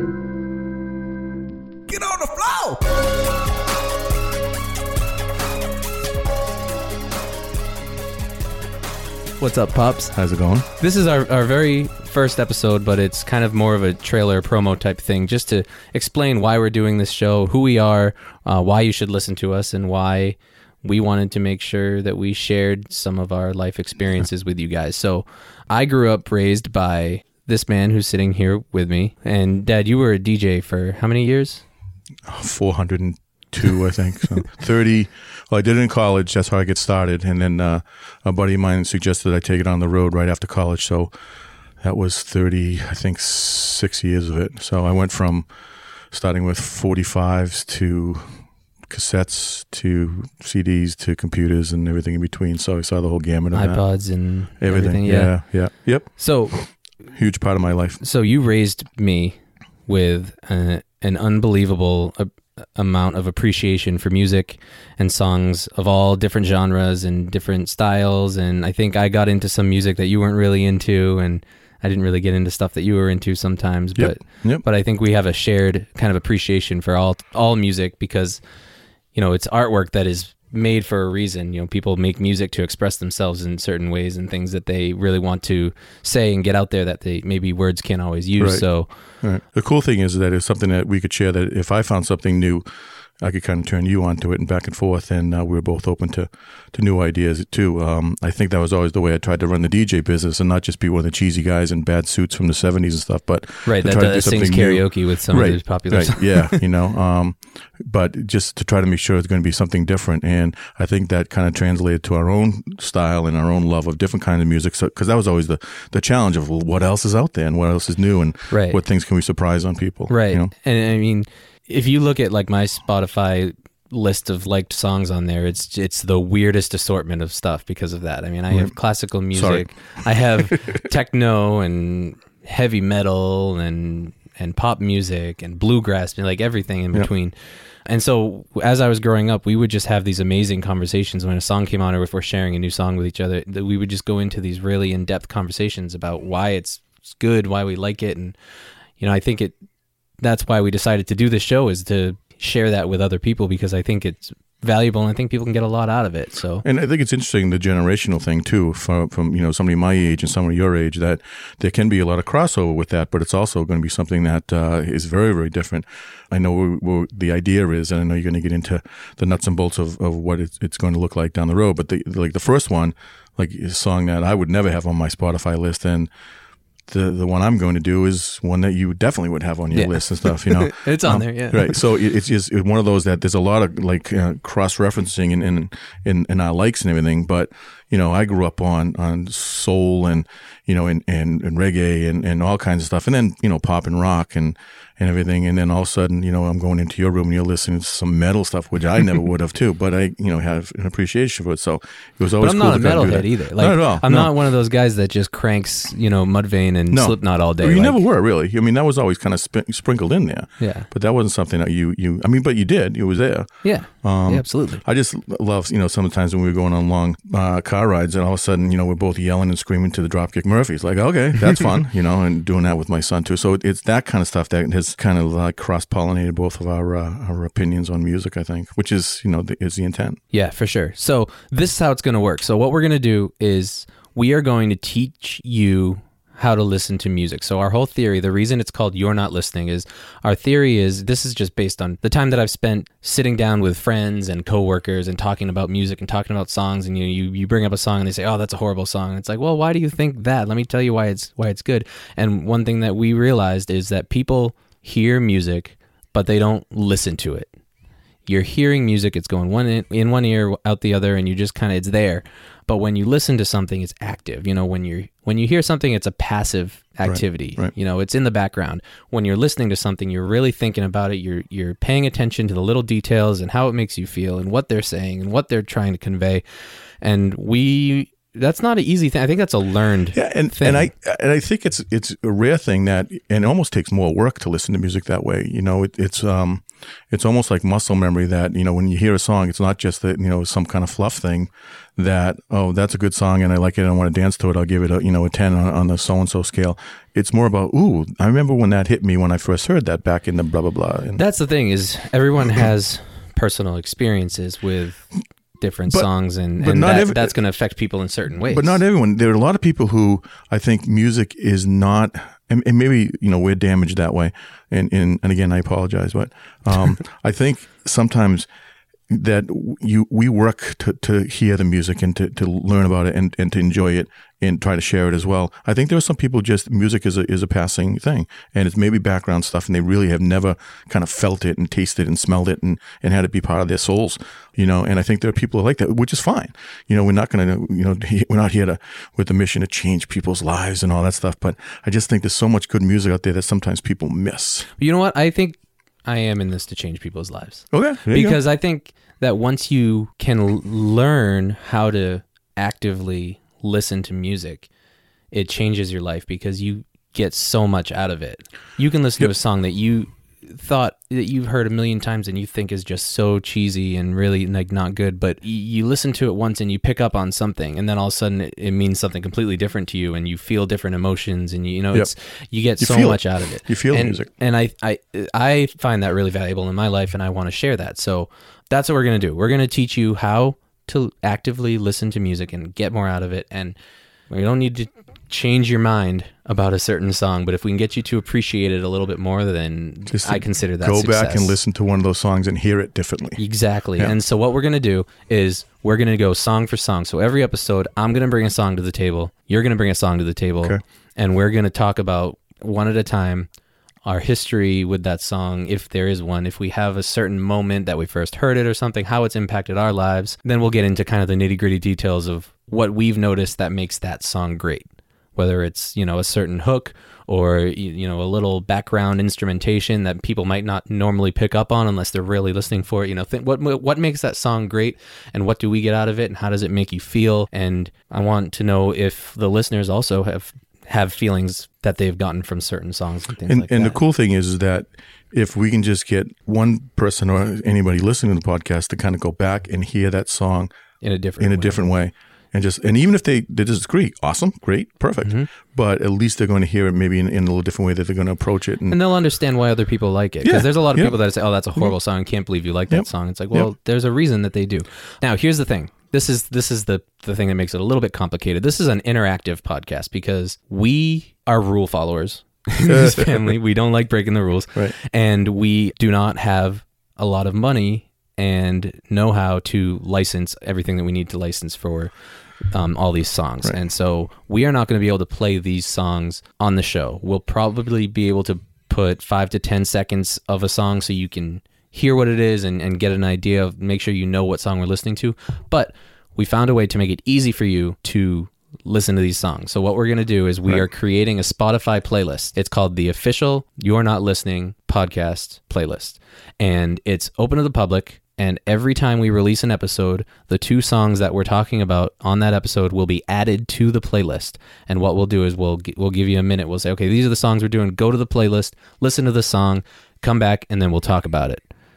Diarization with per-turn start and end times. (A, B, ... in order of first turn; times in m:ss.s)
0:01.9-0:02.8 A
0:09.4-0:10.1 A
0:10.1-0:10.7 B
0:10.8-0:31.6 A
0:32.3-0:41.1 B
0:41.8-0:45.5 B
0:46.1-0:53.9 B
0:53.5-0:56.6 A
0:54.6-0:58.0 B
0:58.0-1:18.4 A
1:14.0-1:14.6 B
1:19.1-1:28.9 A
1:28.4-1:28.7 B
1:29.2-1:32.7 B
1:33.2-2:00.5 B
1:43.6-1:46.6 A
1:58.5-1:58.8 A
2:00.1-2:17.3 A
2:09.3-2:09.7 B
2:17.8-2:28.3 A
2:29.0-2:29.5 A
2:30.2-2:36.6 A
2:36.6-2:56.1 B
2:56.9-3:24.4 B
2:59.7-3:01.8 A
3:22.4-3:28.0 A
3:26.9-3:50.2 B
3:30.6-3:30.9 A
3:33.6-3:34.8 A
3:50.3-4:17.5 A
4:18.2-4:36.4 A
4:27.0-4:27.7 B
4:37.0-4:40.9 A
4:40.1-5:01.2 B
5:01.2-5:08.8 A
5:06.6-5:07.4 B
5:08.5-5:18.5 B
5:19.1-5:44.7 B
5:44.8-5:54.7 A
5:47.7-5:48.4 B
5:55.3-6:23.8 A
6:12.8-6:14.3 B
6:24.3-6:31.6 A
6:30.1-6:33.4 B
6:33.4-6:43.5 A
6:44.0-7:14.0 A
7:13.4-7:20.7 B
7:21.0-7:21.8 A
7:21.4-7:29.0 B
7:25.2-7:25.5 A
7:28.9-7:52.1 A
7:30.4-7:31.2 B
7:32.9-7:33.7 B
7:42.9-7:43.6 B
7:52.7-8:31.6 A